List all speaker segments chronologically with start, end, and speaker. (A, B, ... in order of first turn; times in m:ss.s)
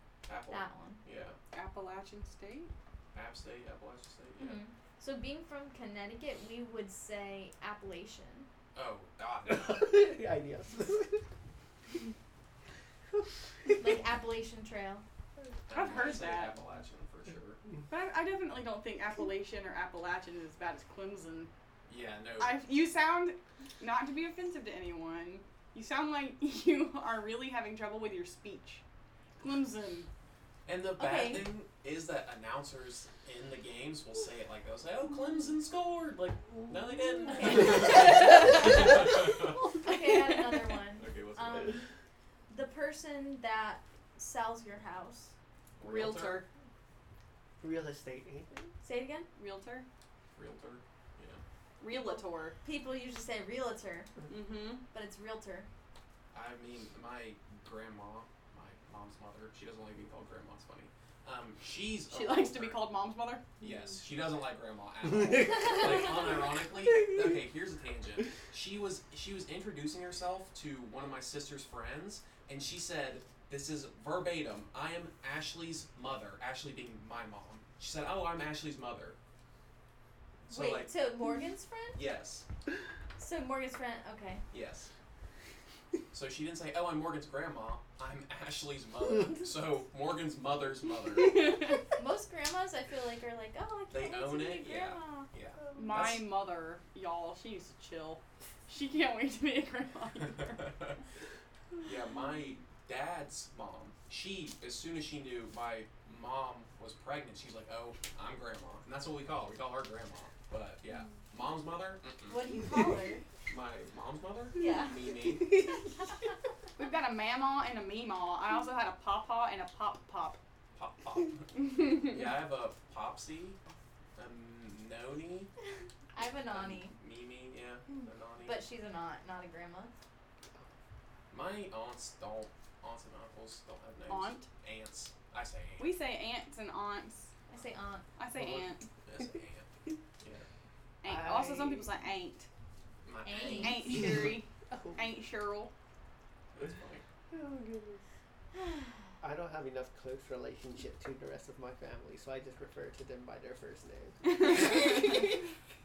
0:00.2-0:01.4 A
0:00.5-0:01.0 B
0:01.5-0:02.7 C
0:03.1-0:04.6 A
0:04.4-0:08.5 B
0:08.7-0:10.0 A
0:09.4-0:11.2 D
0:13.8-0:15.0 B
0:15.7-0:17.6 A
0:15.7-0:16.5 C
0:17.9-0:21.5 C
0:21.9-0:22.6 A
0:22.4-0:28.8 C
0:29.4-0:30.1 C
0:30.6-0:39.7 A
0:31.0-0:31.5 B
0:37.6-0:41.8 B
0:41.0-0:41.8 A
0:42.5-0:45.3 B
0:45.8-0:46.4 A
0:45.8-0:46.5 C
0:47.6-0:48.7 D
0:48.8-0:49.3 B
0:49.3-0:49.9 C
0:50.3-0:51.4 A
0:51.8-0:52.6 C
0:52.6-0:54.1 B
0:54.3-0:54.8 C
0:54.9-0:55.7 B
0:56.3-1:02.8 A
1:02.1-1:03.5 C
1:03.6-1:19.2 A
1:06.8-1:07.3 D
1:20.4-1:20.9 A
1:20.5-1:22.0 B
1:21.9-1:22.4 A
1:23.2-1:24.4 B
1:24.5-1:24.9 A
1:26.1-1:31.7 A
1:31.3-1:31.8 C
1:32.0-1:35.3 B
1:33.9-1:36.2 A
1:35.7-1:40.8 C
1:40.4-1:41.0 A
1:41.8-1:52.7 A
1:52.3-1:53.2 B
1:53.4-1:55.8 A
1:54.5-1:55.1 B
1:55.5-1:55.7 D
1:56.8-2:00.4 C
2:00.7-2:03.6 A
2:01.6-2:02.0 C
2:04.2-2:05.5 A
2:06.1-2:06.9 B
2:06.5-2:08.6 A
2:08.4-2:09.9 B
2:11.3-2:15.9 A
2:14.1-2:14.5 C
2:15.8-2:17.3 C
2:17.5-2:18.1 B
2:18.2-2:18.9 C
2:18.3-2:20.5 A
2:21.0-2:22.5 C
2:21.0-2:21.9 D
2:23.0-2:24.2 A
2:23.2-2:24.1 B
2:23.5-2:25.7 C
2:24.7-2:25.1 D
2:26.5-2:27.0 A
2:27.3-2:28.0 D
2:29.2-2:35.3 D
2:34.3-2:35.1 C